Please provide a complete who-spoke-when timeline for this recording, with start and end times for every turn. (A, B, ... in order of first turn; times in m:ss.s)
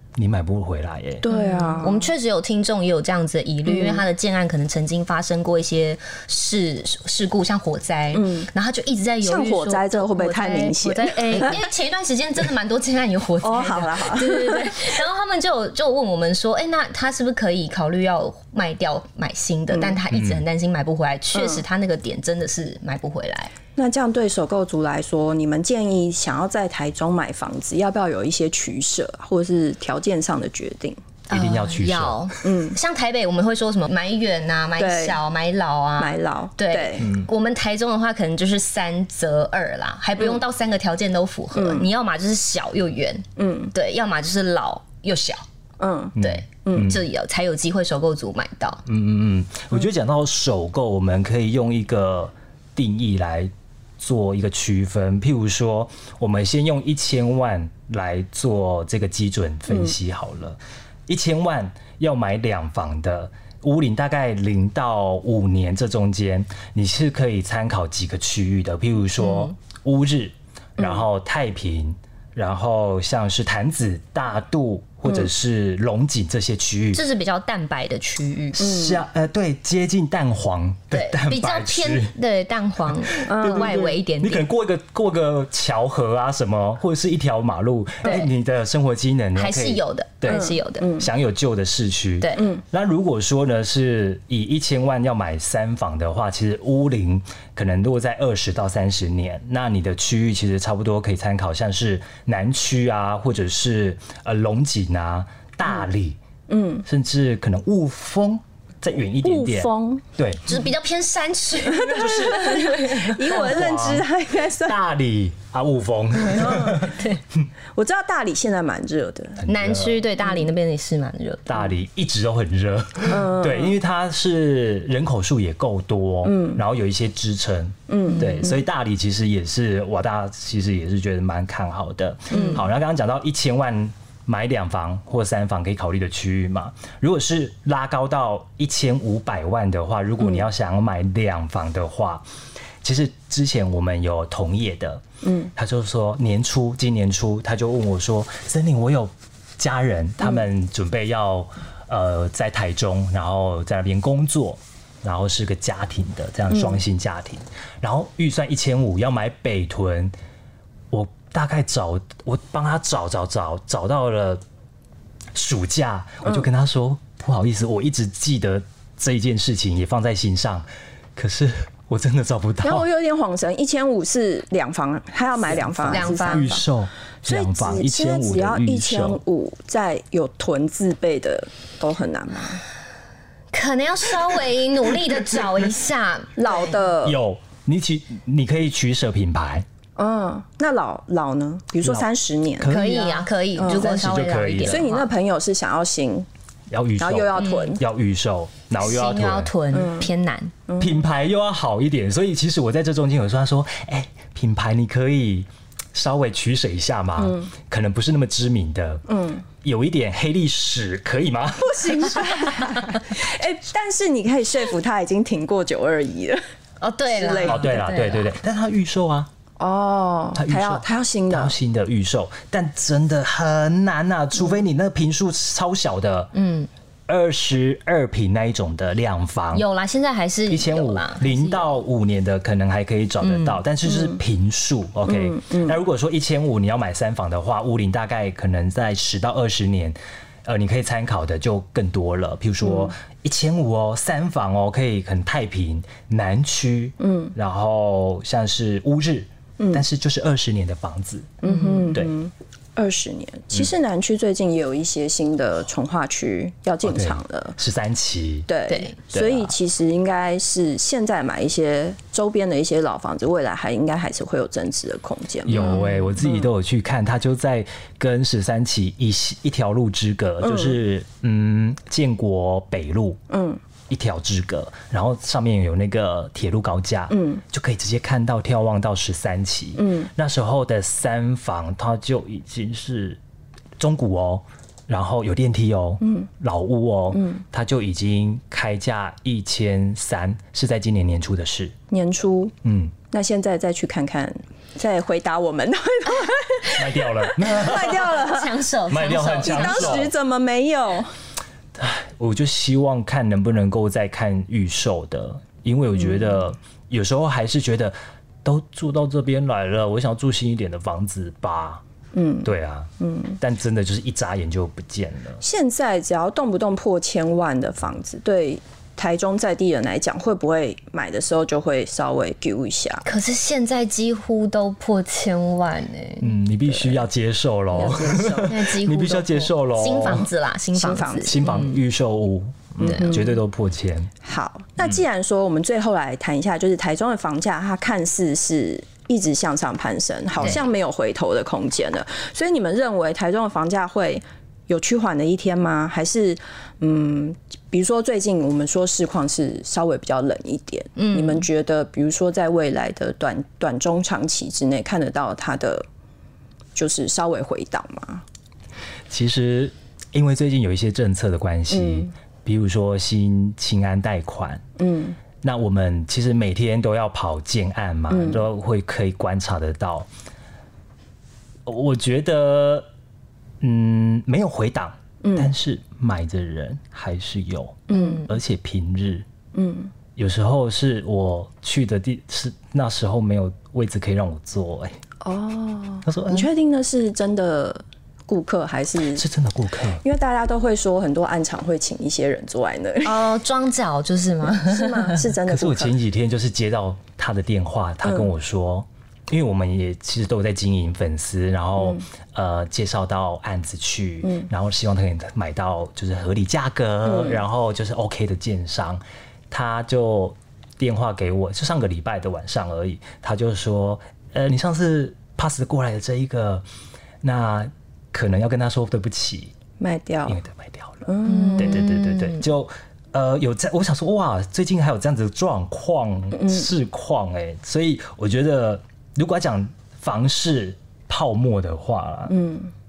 0:00.2-0:01.3 A
0:01.2-0:02.1 B
0:01.3-0:23.5 C
0:03.7-0:04.0 B
0:08.1-0:08.5 B
0:09.2-0:11.6 B
0:13.4-0:14.8 B
0:19.7-0:20.0 B
0:20.1-0:20.4 A
0:21.3-0:21.6 B
0:23.8-0:31.0 B
0:31.3-0:45.4 C
0:31.3-0:32.3 A
0:32.4-0:32.8 B
0:34.8-0:35.2 B
0:36.0-0:37.1 B
0:37.0-0:37.3 A
0:40.2-0:40.4 B
0:41.5-0:41.9 B
0:43.4-0:43.7 B
0:45.8-0:46.9 B
0:46.2-0:47.0 A
0:46.2-0:48.8 C
0:48.9-1:17.0 A
0:59.7-1:00.0 B
1:09.2-1:09.5 C
1:10.8-1:11.0 B
1:16.9-1:18.6 C
1:18.6-1:22.1 A
1:18.6-1:19.0 B
1:20.9-1:24.4 C
1:23.1-1:46.2 A
1:23.2-1:23.9 B
1:28.0-1:28.3 C
1:29.4-1:30.9 C
1:30.3-1:31.1 B
1:32.2-1:32.5 C
1:46.5-1:46.9 B
1:46.9-1:50.5 A
1:49.2-1:50.0 B
1:50.5-1:53.6 C
1:51.7-1:54.8 B
1:51.9-1:52.8 A
1:53.3-1:54.1 A
1:54.6-1:57.0 A
1:56.3-1:57.0 B
1:57.8-1:59.4 B
1:59.4-2:00.0 A
1:59.4-2:01.5 C
2:01.5-2:22.2 A
2:03.1-2:03.8 B
2:06.2-2:06.6 B
2:07.9-2:08.6 B
2:12.3-2:12.6 B
2:12.4-2:12.6 C
2:22.8-2:25.0 A
2:25.2-2:25.5 B
2:25.6-2:40.1 A
2:36.5-2:36.8 B
2:40.9-2:44.4 A
2:45.4-2:52.9 A
2:52.6-2:56.6 B
2:55.5-2:59.2 A
2:55.8-2:56.6 C
2:57.3-3:02.6 B
3:03.5-3:06.7 C
3:06.4-3:07.2 B
3:07.0-3:09.7 A
3:10.0-3:12.8 B
3:12.6-3:14.9 A
3:12.6-3:15.1 C
3:13.6-3:14.0 B
3:14.6-3:16.3 B
3:16.7-3:19.5 A
3:17.0-3:17.8 B
3:17.4-3:17.8 C
3:18.8-3:20.5 C
3:19.7-3:20.1 B
3:20.7-3:21.0 B
3:20.8-3:29.1 A
3:27.2-3:27.5 B
3:29.1-3:29.4 B
3:29.6-3:32.3 A
3:31.6-3:36.4 B
3:36.8-3:38.4 C
3:37.1-3:37.8 B
3:37.5-3:39.3 A
3:39.6-3:41.6 B
3:40.4-3:46.3 A
3:46.3-3:46.7 C
3:47.1-3:49.6 A
3:49.5-3:51.7 C
3:50.5-4:11.4 A
3:53.2-3:53.6 C
3:53.9-3:54.2 B
3:55.1-3:55.8 B
4:02.6-4:02.9 B
4:07.0-4:07.4 B
4:09.6-4:09.8 B
4:11.4-4:17.6 B
4:11.4-4:11.9 C
4:16.8-4:18.5 A
4:18.5-4:26.5 B
4:18.7-4:19.0 C
4:19.1-4:19.6 A
4:25.5-4:33.2 A
4:25.6-4:26.1 C
4:30.4-4:30.8 B
4:33.3-4:33.6 B
4:33.9-4:43.2 A
4:37.1-4:37.4 B
4:39.8-4:40.1 B
4:43.8-4:51.8 A
4:46.0-4:46.3 B
4:47.1-4:47.4 B
4:51.9-4:52.5 B
4:52.6-4:52.9 A
4:53.1-4:58.6 B
4:56.8-4:58.2 A
4:58.0-5:00.1 C
4:58.9-5:00.1 A
4:59.4-5:01.1 B
5:01.8-5:11.8 A
5:12.1-5:13.4 B
5:12.4-5:15.4 A
5:15.4-5:23.0 B
5:23.0-5:26.3 C
5:26.2-5:30.3 A
5:27.7-5:31.8 C
5:27.8-5:28.6 B
5:30.8-5:31.4 B
5:31.2-5:34.1 A
5:32.8-5:33.2 C
5:32.8-5:33.4 B
5:34.2-5:55.8 B
5:51.0-5:51.4 C
5:56.8-5:58.2 B
5:59.1-6:04.6 A
6:01.7-6:02.1 B
6:04.8-6:05.2 B
6:05.4-6:10.1 A
6:08.1-6:08.4 B
6:11.7-6:12.9 A
6:13.6-6:19.2 A
6:15.2-6:15.5 B
6:17.9-6:18.3 B
6:17.9-6:18.3 C
6:19.5-6:19.9 B
6:20.2-6:25.0 A
6:25.2-6:29.2 B
6:26.1-6:26.5 A
6:29.1-6:30.0 A
6:30.0-6:33.3 B
6:33.0-6:35.2 C
6:34.5-6:36.0 B
6:35.5-6:56.6 A
6:38.0-6:38.3 B
6:44.2-6:44.5 B
6:47.0-6:47.4 B
6:57.2-6:59.5 A
6:59.8-7:00.4 B
7:00.3-7:12.3 A
7:01.1-7:01.8 B
7:01.3-7:02.4 C
7:06.3-7:06.7 B
7:12.3-7:12.7 B